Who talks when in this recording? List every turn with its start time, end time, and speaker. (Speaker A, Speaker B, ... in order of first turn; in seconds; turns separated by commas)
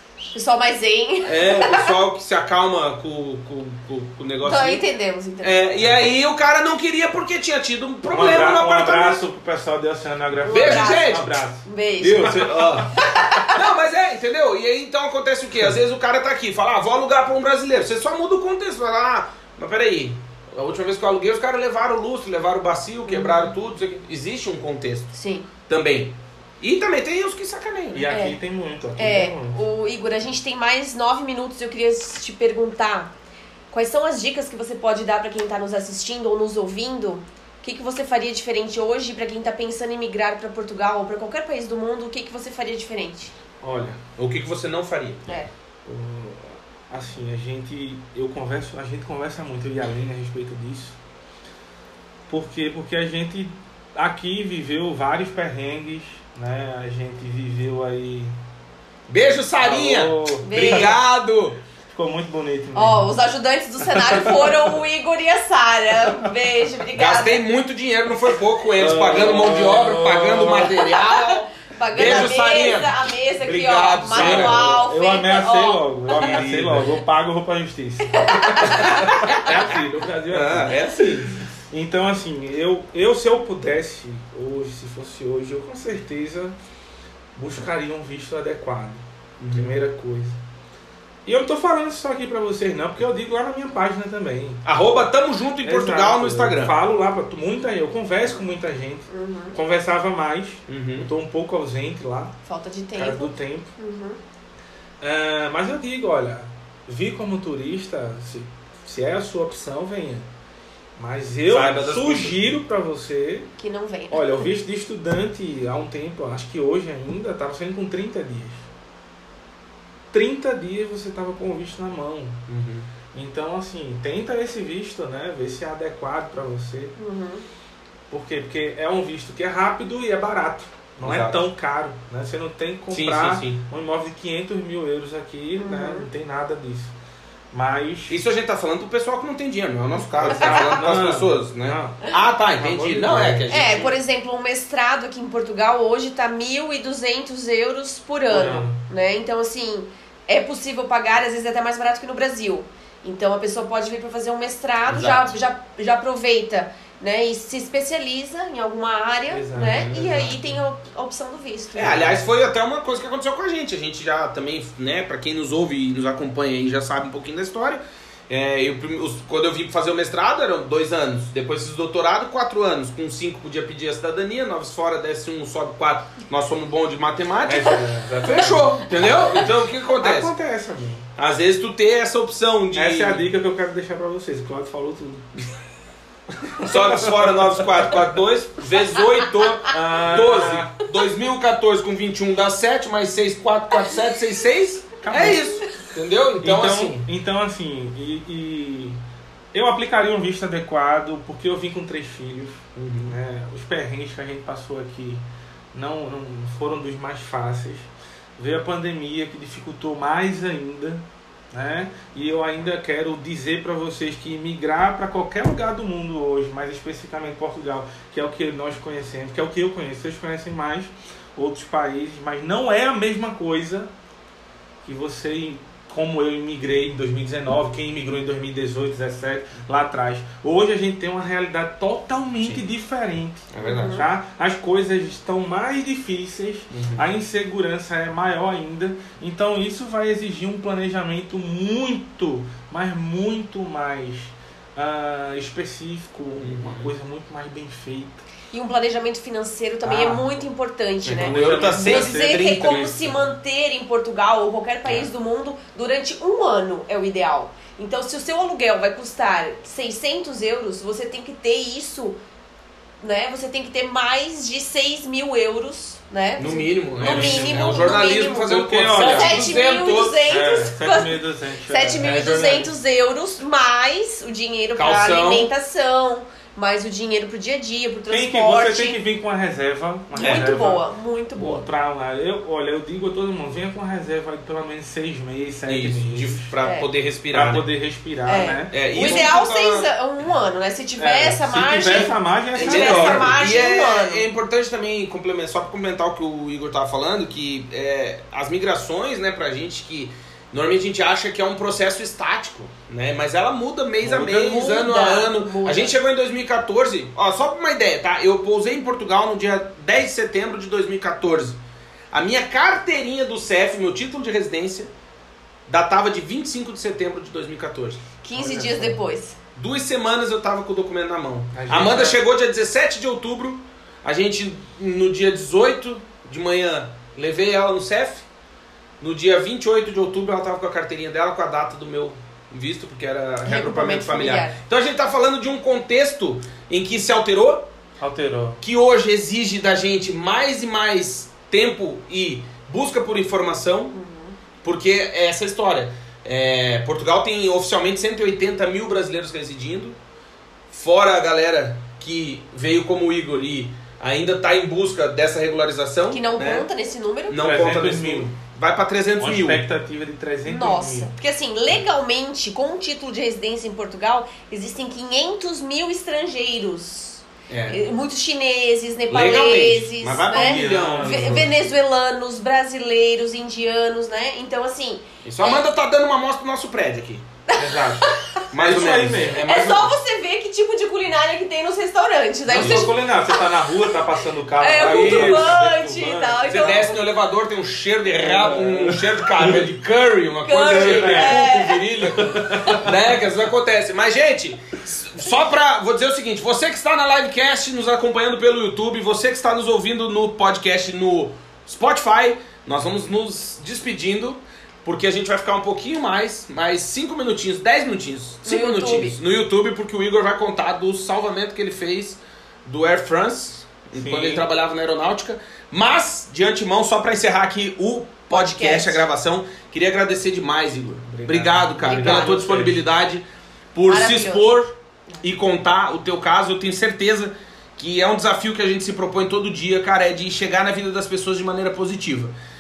Speaker A: 0.3-1.9, Speaker B: 1.3-4.8, Speaker A: 4.4-5.6, Speaker B: 5.4-9.2, Speaker C: 8.1-11.6, Speaker A: 10.4-13.6, Speaker B: 10.5-11.3, Speaker B: 12.0-25.1, Speaker A: 23.1-23.5, Speaker A: 25.1-25.5, Speaker B: 25.7-28.1, Speaker C: 27.9-29.6, Speaker A: 28.1-28.4, Speaker A: 29.0-33.1, Speaker A: 33.7-43.3, Speaker C: 43.6-44.0, Speaker B: 44.2-45.2, Speaker C: 45.9-51.0, Speaker C: 52.3-58.4, Speaker B: 59.1-61.6, Speaker C: 59.6-60.9, Speaker A: 60.4-61.0, Speaker C: 61.9-63.1, Speaker A: 62.7-67.4, Speaker C: 63.9-64.7, Speaker B: 67.0-71.4, Speaker C: 68.8-70.8, Speaker A: 70.6-75.9, Speaker B: 72.0-74.8, Speaker C: 74.1-86.6, Speaker B: 76.2-77.0, Speaker A: 78.1-79.5, Speaker B: 78.7-79.4, Speaker B: 80.3-81.3, Speaker C: 87.3-90.4, Speaker B: 89.4-89.8, Speaker C: 91.3-94.6, Speaker B: 94.7-96.8, Speaker C: 95.6-102.3, Speaker A: 99.1-99.6, Speaker B: 100.7-101.1, Speaker A: 102.5-104.2, Speaker C: 103.0-103.7, Speaker C: 105.0-110.3, Speaker C: 111.0-113.5, Speaker B: 111.5-112.5, Speaker A: 113.6-114.5, Speaker C: 114.1-118.7, Speaker C: 120.1-122.4, Speaker B: 122.5-122.9, Speaker C: 123.1-126.9, Speaker A: 127.0-127.5, Speaker C: 128.1-136.9, Speaker B: 131.0-131.4, Speaker B: 132.9-133.6, Speaker A: 135.6-136.1, Speaker C: 137.5-138.2, Speaker B: 138.1-144.0, Speaker C: 140.2-142.0, Speaker A: 140.2-140.8, Speaker C: 142.6-143.6, Speaker A: 143.5-162.2, Speaker C: 148.3-148.8, Speaker B: 154.8-155.4, Speaker C: 159.3-160.4, Speaker B: 159.6-160.5, Speaker B: 161.8-180.3, Speaker C: 177.5-181.1, Speaker B: 181.2-183.3, Speaker C: 182.7-185.5, Speaker C: 186.3-187.9, Speaker B: 186.6-197.1, Speaker C: 189.7-190.7, Speaker C: 195.0-195.5, Speaker A: 195.3-195.7, Speaker C: 196.4-199.0, Speaker C: 199.5-223.9, Speaker B: 202.8-203.2, Speaker C: 224.8-248.2, Speaker B: 233.5-234.0, Speaker A: 233.6-234.1, Speaker B: 236.7-237.1, Speaker B: 246.4-246.9, Speaker A: 248.5-262.2, Speaker C: 249.8-250.3, Speaker B: 251.1-253.3, Speaker C: 251.1-252.8, Speaker A: 263.0-279.0, Speaker B: 266.4-270.4, Speaker C: 267.0-269.6, Speaker C: 270.3-272.7, Speaker B: 274.8-275.5, Speaker C: 278.1-280.8, Speaker A: 280.2-281.6, Speaker B: 280.2-280.5, Speaker C: 281.4-286.5, Speaker B: 285.7-287.7, Speaker A: 286.6-286.9, Speaker C: 287.3-289.3, Speaker A: 288.3-294.3, Speaker B: 288.7-289.9, Speaker C: 291.0-293.4, Speaker B: 292.6-311.6, Speaker A: 304.0-306.0, Speaker B: 312.1-314.9, Speaker B: 315.7-318.0, Speaker A: 318.2-319.4, Speaker C: 318.4-319.0, Speaker B: 319.6-328.2, Speaker C: 321.5-322.2, Speaker B: 329.0-337.6, Speaker A: 333.4-334.6, Speaker C: 338.0-338.6, Speaker B: 338.6-343.9, Speaker A: 343.9-344.4, Speaker B: 344.6-350.0, Speaker B: 350.7-356.7, Speaker A: 356.1-357.4, Speaker B: 357.3-359.6, Speaker C: 357.4-358.3, Speaker C: 359.2-361.1, Speaker A: 360.5-375.6, Speaker B: 367.5-367.8, Speaker B: 369.1-371.5, Speaker C: 370.3-371.5, Speaker B: 375.2-377.2, Speaker A: 377.5-378.4, Speaker C: 377.6-379.4, Speaker B: 378.5-380.0, Speaker A: 379.4-383.0, Speaker C: 382.5-386.9, Speaker B: 382.5-382.9, Speaker A: 384.6-387.0, Speaker B: 384.8-385.6, Speaker B: 386.5-432.3, Speaker C: 388.1-389.7, Speaker A: 390.4-391.9, Speaker C: 390.7-391.5, Speaker C: 392.1-392.9, Speaker A: 392.5-392.9, Speaker A: 408.4-409.2, Speaker C: 413.9-414.4, Speaker A: 418.3-419.1, Speaker C: 421.1-422.8, Speaker A: 421.8-422.4, Speaker A: 423.9-424.5